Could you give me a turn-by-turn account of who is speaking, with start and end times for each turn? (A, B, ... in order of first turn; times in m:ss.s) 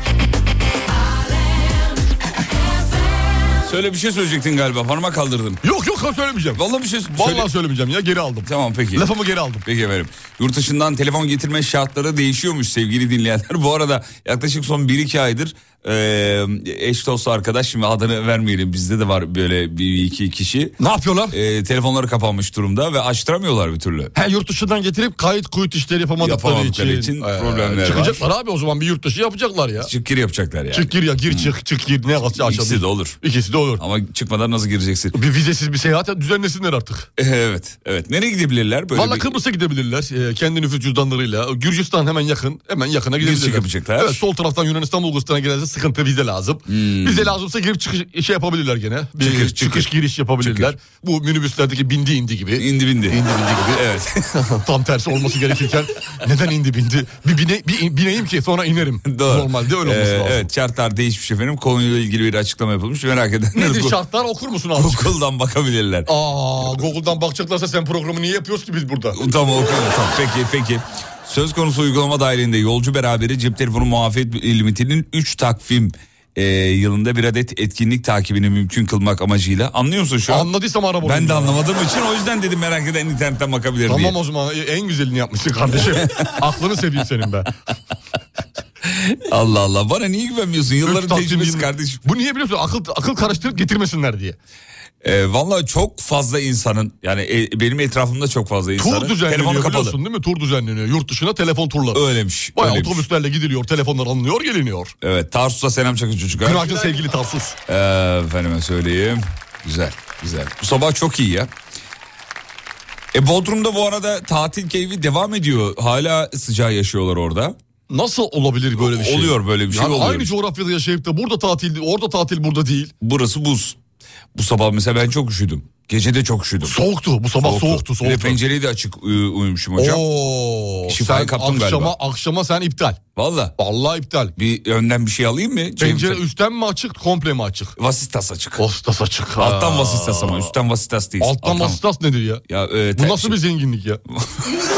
0:03.6-0:05.6 A
0:05.6-0:06.6 B
0:06.5-0:07.5 A
0:07.1-0:09.6 B
0:08.4-0:09.1 A
0:09.6-0:20.8 A
0:20.8-0:21.3 B
0:21.3-0:24.1 A
0:24.1-0:29.9 B
0:26.2-0:28.3 A
0:29.8-0:31.5 A
0:30.7-0:33.8 B
0:32.3-0:33.2 A
0:33.8-0:35.1 A
0:35.1-0:37.1 B
0:37.2-0:39.4 A
0:38.9-0:53.8 B
0:43.2-0:44.2 A
0:46.7-0:47.3 A
0:49.2-0:50.7 A
0:52.6-0:54.3 A
0:54.4-1:00.5 B
0:59.0-1:04.0 A
1:03.5-1:05.1 B
1:04.8-1:06.1 A
1:06.1-1:09.2 B
1:09.1-1:20.5 A
1:20.3-1:21.6 B
1:21.0-1:24.2 A
1:23.8-1:27.5 B
1:25.9-1:26.3 A
1:28.8-1:32.0 A
1:30.8-1:34.4 B
1:35.0-1:40.0 A
1:38.8-1:42.0 B
1:41.9-1:43.0 A
1:42.6-1:44.9 B
1:45.0-1:46.8 A
1:46.4-1:47.6 B
1:47.7-1:51.5 A
1:53.1-1:57.6 A
1:57.9-2:02.9 B
1:58.8-2:00.3 A
2:03.0-2:03.8 A
2:04.3-2:06.8 A
2:06.6-2:08.4 B
2:07.4-2:10.0 A
2:09.8-2:13.0 B
2:10.9-2:11.9 A
2:13.1-2:13.5 A
2:13.6-2:14.3 B
2:14.4-2:16.2 A
2:15.8-2:17.7 B
2:17.8-2:18.6 A
2:18.6-2:20.5 B
2:19.4-2:21.8 A
2:21.2-2:22.4 B
2:22.5-2:23.4 A
2:23.0-2:24.0 B
2:24.2-2:24.5 A